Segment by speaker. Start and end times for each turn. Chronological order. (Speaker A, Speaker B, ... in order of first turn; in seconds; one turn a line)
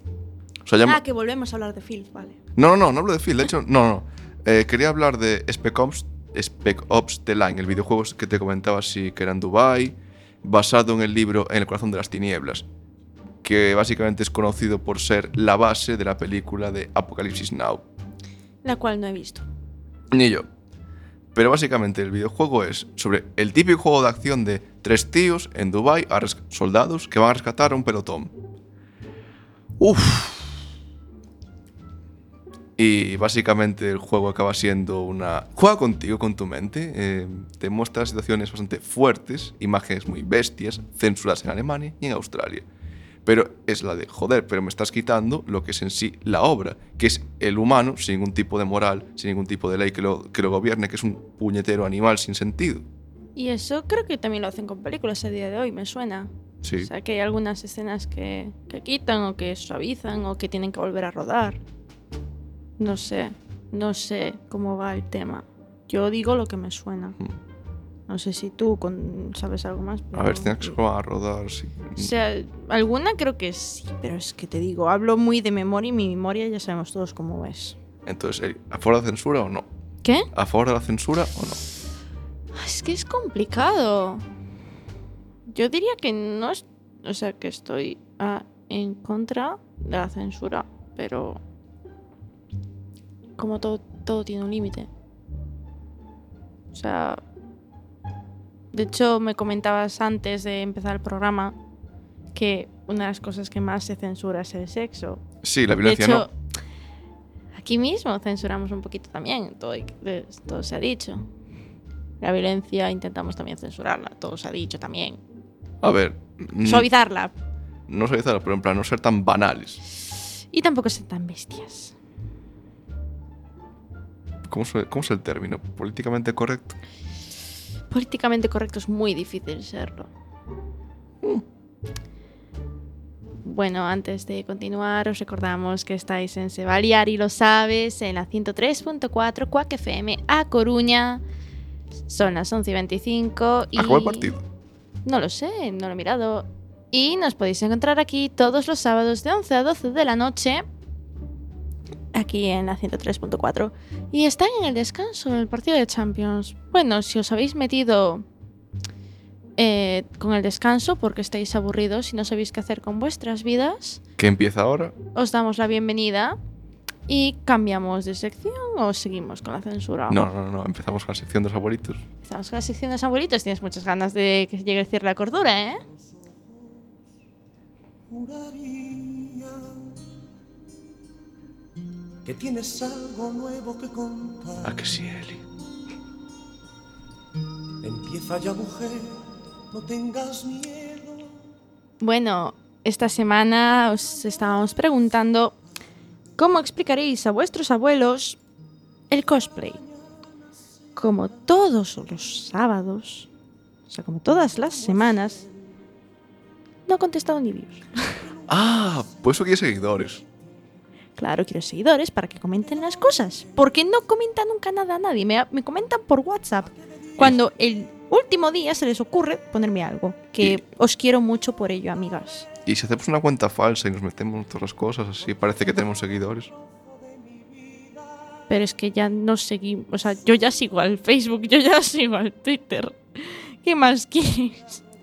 Speaker A: 0.6-1.0
Speaker B: 0.8-2.4
Speaker A: 2.5-12.7
Speaker A: 13.4-17.8
Speaker B: 18.6-19.4
Speaker A: 20.1-20.5
Speaker A: 21.3-28.3
Speaker A: 29.8-30.6
Speaker A: 32.8-42.7
Speaker A: 43.2-52.9
Speaker B: 53.4-61.6
Speaker A: 56.6-56.9
Speaker B: 62.8-67.2
Speaker B: 68.1-70.8
Speaker A: 70.1-72.1
Speaker B: 72.0-77.8
Speaker A: 78.0-79.7
Speaker B: 80.0-80.3
Speaker A: 80.3-81.6
Speaker B: 82.5-84.2
Speaker B: 85.5-91.4
Speaker B: 93.4-94.9
Speaker B: 96.7-97.2
Speaker B: 98.7-101.6
Speaker B: 102.3-105.2
Speaker A: 105.4-106.3
Speaker B: 105.8-106.3
Speaker B: 107.5-111.2
Speaker B: 112.2-115.2
Speaker A: 115.8-116.9
Speaker B: 116.6-117.3
Speaker A: 117.9-119.8
Speaker B: 120.5-121.9
Speaker A: 124.5-126.8
Speaker B: 127.9-130.1
Speaker B: 133.4-141.2
Speaker B: 142.1-144.3
Speaker A: 143.8-144.4
Speaker B: 145.0-150.6
Speaker B: 152.1-158.2
Speaker B: 159.6-164.0
Speaker A: 164.2-164.9
Speaker B: 165.1-166.4
Speaker B: 167.1-170.2
Speaker A: 170.1-172.0
Speaker B: 172.2-175.8
Speaker C: 178.1-179.9
Speaker C: 182.2-184.8
Speaker A: 184.6-185.4
Speaker C: 187.8-191.3
Speaker B: 192.0-195.6
Speaker B: 196.4-198.4
Speaker B: 199.1-199.8
Speaker B: 200.9-203.3
Speaker B: 203.9-205.4
Speaker B: 206.9-207.9
Speaker A: 208.5-210.2
Speaker B: 211.2-222.5
Speaker A: 222.6-226.5
Speaker B: 228.5-234.8